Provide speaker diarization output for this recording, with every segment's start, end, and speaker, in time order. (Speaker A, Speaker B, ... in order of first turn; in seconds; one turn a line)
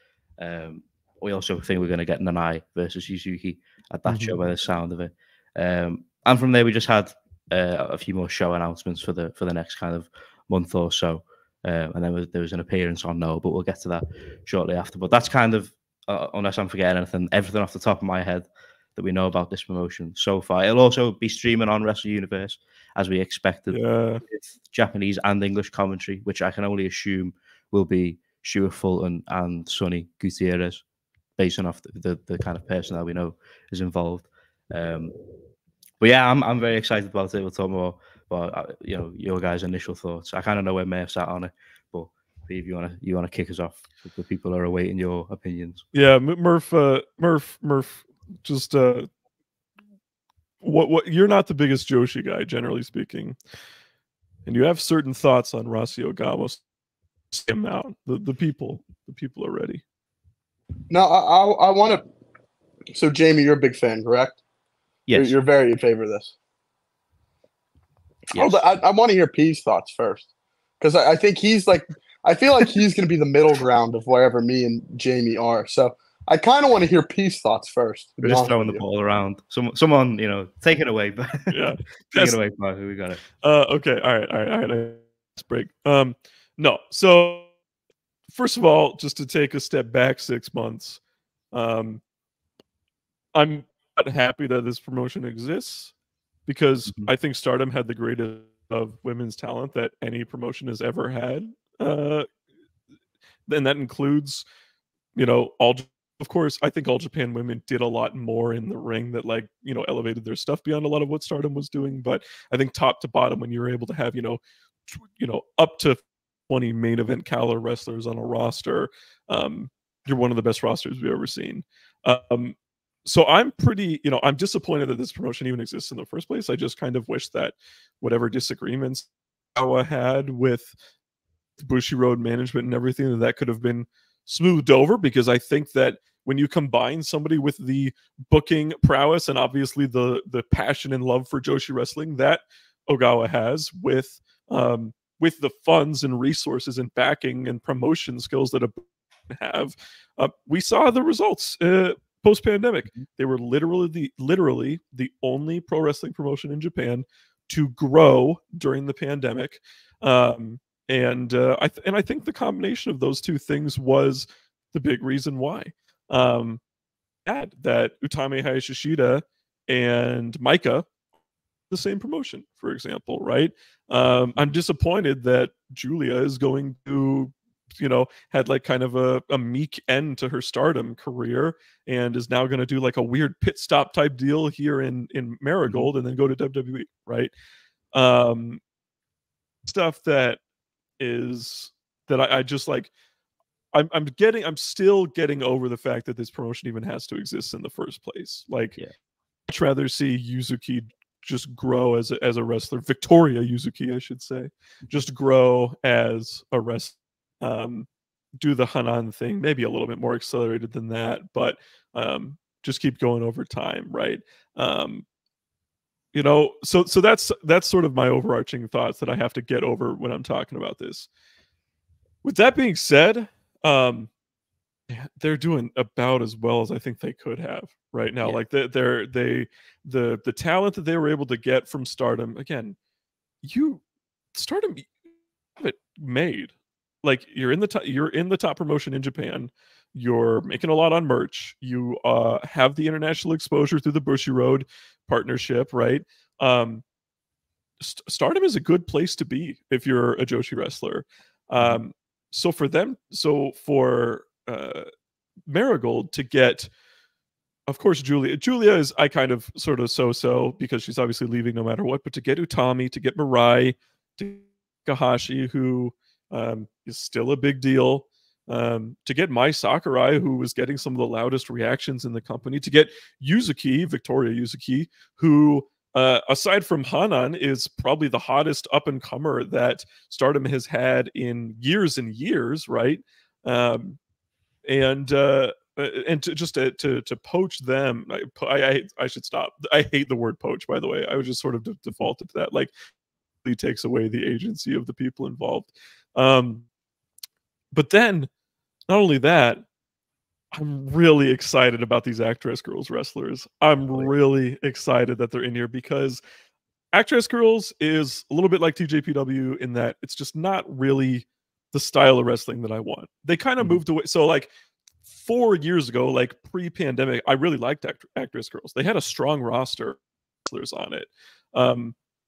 Speaker A: 0.4-30.8
Speaker B: 4.1-4.3
Speaker B: 23.7-24.2
Speaker A: 31.4-35.1
Speaker A: 36.0-45.8
Speaker B: 45.9-49.1
Speaker B: 50.6-53.4
Speaker B: 54.4-56.6
Speaker B: 57.3-59.8
Speaker C: 60.9-62.0
Speaker C: 62.9-64.4
Speaker A: 65.1-65.3
Speaker C: 65.1-66.3
Speaker A: 68.3-68.6
Speaker C: 68.3-70.3
Speaker C: 70.8-78.8
Speaker A: 78.2-81.6
Speaker B: 81.5-82.4
Speaker A: 82.1-83.2
Speaker B: 83.4-87.5
Speaker B: 88.3-91.0
Speaker B: 91.5-92.0
Speaker B: 93.3-95.9
Speaker B: 96.5-102.3
Speaker B: 103.5-104.4
Speaker B: 105.1-130.7
Speaker B: 131.6-166.6
Speaker B: 167.2-170.9
Speaker B: 171.7-187.3
Speaker B: 187.9-188.6
Speaker B: 189.6-190.4
Speaker B: 191.0-192.9
Speaker B: 193.7-198.8
Speaker B: 199.5-207.9
Speaker B: 208.4-215.1
Speaker B: 216.1-221.1
Speaker B: 222.2-224.1
Speaker B: 224.9-232.8
Speaker B: 233.4-233.8
Speaker B: 234.3-234.9
Speaker B: 235.6-246.8
Speaker B: 247.8-254.9
Speaker B: 255.5-256.7
Speaker B: 257.7-284.0
Speaker B: 284.6-292.7
Speaker B: 293.4-296.6
Speaker B: 297.7-298.3
Speaker B: 298.9-299.6
Speaker B: 300.5-306.2
Speaker B: 306.9-314.5
Speaker B: 315.1-321.9